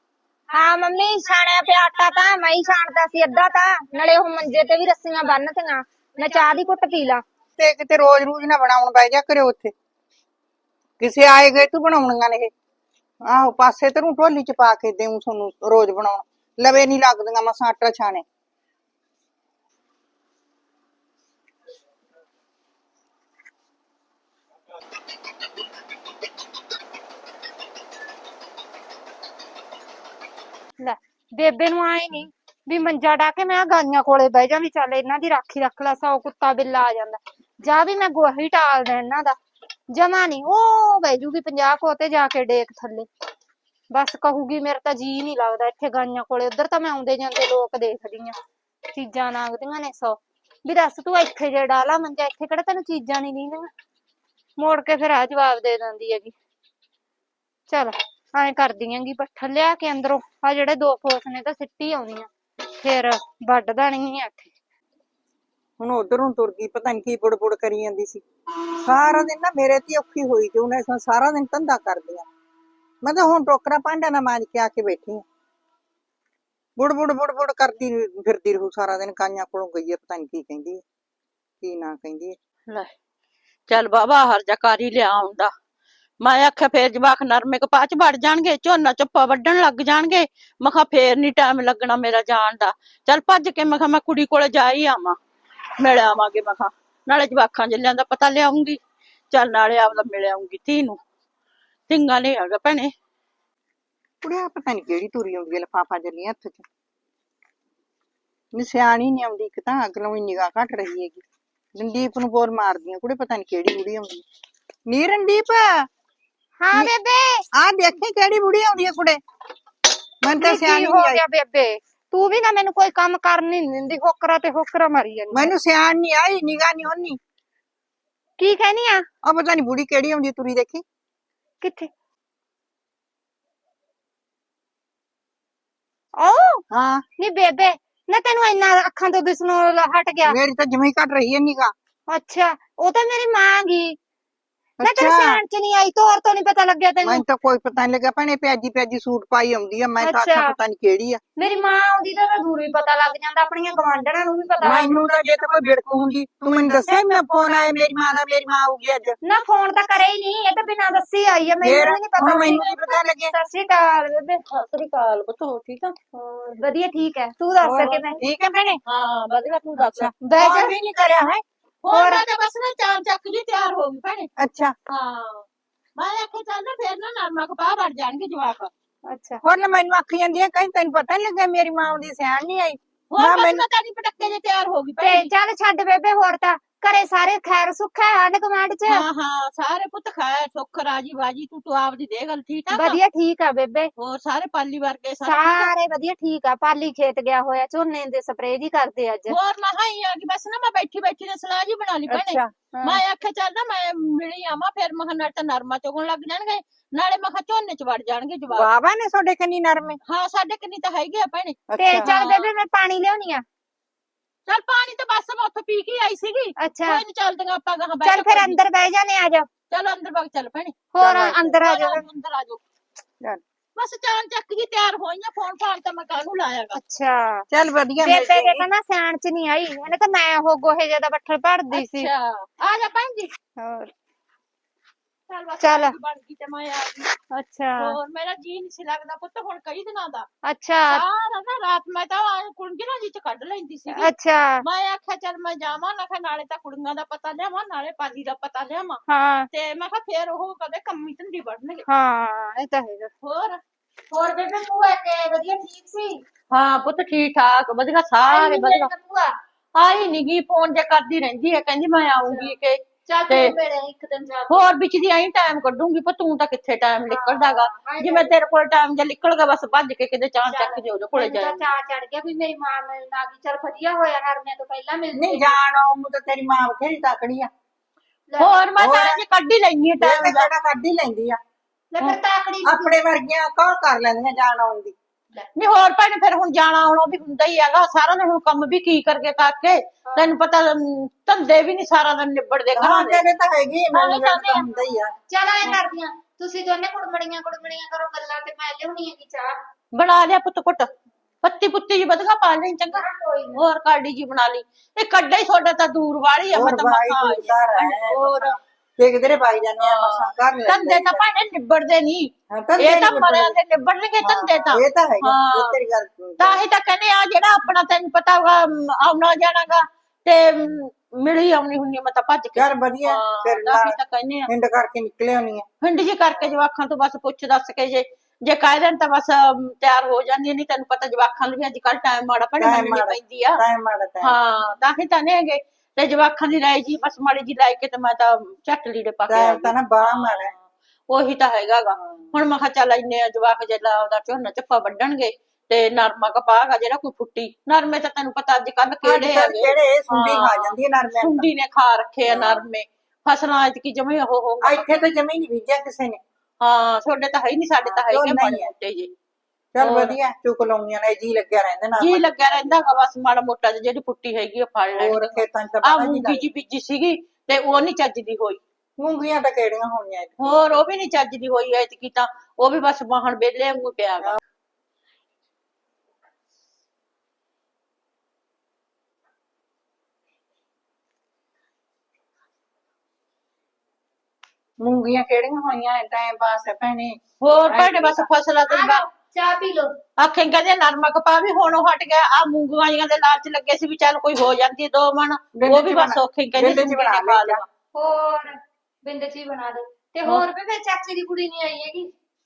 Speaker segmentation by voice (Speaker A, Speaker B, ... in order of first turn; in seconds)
Speaker A: 0.5-7.2, 30.8-39.4, 39.9-43.1, 43.9-48.4, 48.9-53.7, 54.6-56.3, 57.7-62.3, 62.8-64.5, 116.6-117.4, 120.3-125.5, 128.4-129.1, 131.6-131.9, 136.2-136.6, 137.2-140.3, 142.1-144.0, 144.8-147.2, 150.0-150.6, 151.4-154.9, 159.2-164.4, 166.1-168.8, 170.2-170.7, 171.9-172.2, 179.1-179.4, 185.0-189.1, 192.7-193.9, 195.2-199.4, 202.7-203.0, 211.8-213.4, 216.6-217.0, 218.0-219.5, 220.9-222.0, 226.7-227.5, 228.0-232.1, 233.6-233.9, 235.6-235.9, 237.3-238.0, 240.5-241.0, 243.9-244.7, 249.1-249.5, 251.9-253.1, 254.1-256.2, 258.2-259.4, 262.3-262.5, 263.1-264.7, 267.1-268.3, 270.5-275.5, 278.3-278.5, 281.9-282.9, 290.1-290.3, 295.3-299.5, 302.9-303.6, 388.7-390.0, 397.9-402.1
Speaker B: 7.6-9.7, 11.0-12.5, 13.3-18.2, 65.8-68.2, 68.8-72.3, 73.0-75.2, 76.8-80.8, 81.6-82.3, 104.2-106.7, 108.5-111.2, 111.8-114.2, 114.9-115.9, 117.5-119.2, 120.2-121.2, 125.3-127.2, 129.2-130.8, 136.7-137.0, 140.2-141.7, 144.8-145.4, 147.0-151.2, 154.6-159.2, 161.6-163.3, 167.6-168.8, 169.9-171.4, 174.4-174.7, 179.4-183.6, 202.1-202.5, 208.5-210.0, 211.7-212.1, 227.5-228.6, 275.1-277.5, 278.8-279.2, 280.0-281.4, 282.6-284.9, 292.7-295.1, 306.5-311.2, 312.5-313.6, 314.2-316.6, 322.5-325.7, 332.6-334.4, 339.3-340.5, 342.0-342.3, 349.0-351.5, 352.3-352.6, 354.6-356.2, 357.8-358.7, 359.7-362.9, 365.0-366.4, 369.0-370.7, 384.8-388.3, 395.6-397.6
Speaker C: 83.7-85.5, 86.2-95.2, 95.8-98.8, 99.3-101.0, 101.9-102.9, 162.3-162.6, 164.5-165.9, 168.8-170.1, 171.8-174.3, 174.9-175.4, 176.0-178.7, 183.1-185.3, 188.8-193.0, 194.0-195.7, 199.3-208.7, 210.1-212.5, 214.5-218.6, 219.7-222.6, 223.8-226.8, 231.7-233.3, 235.3-237.1, 237.8-240.3, 240.8-244.1, 244.6-251.8, 253.2-253.6, 256.5-258.9, 259.8-263.5, 264.5-271.6, 278.4-280.5, 285.6-293.2, 293.9-294.7, 299.9-300.9, 301.4-308.6, 309.8-315.8, 316.4-324.5, 325.8-333.6, 334.2-355.1, 356.6-359.1, 359.8-360.2, 362.0-368.6, 370.4-374.4, 387.4-389.0, 390.2-397.6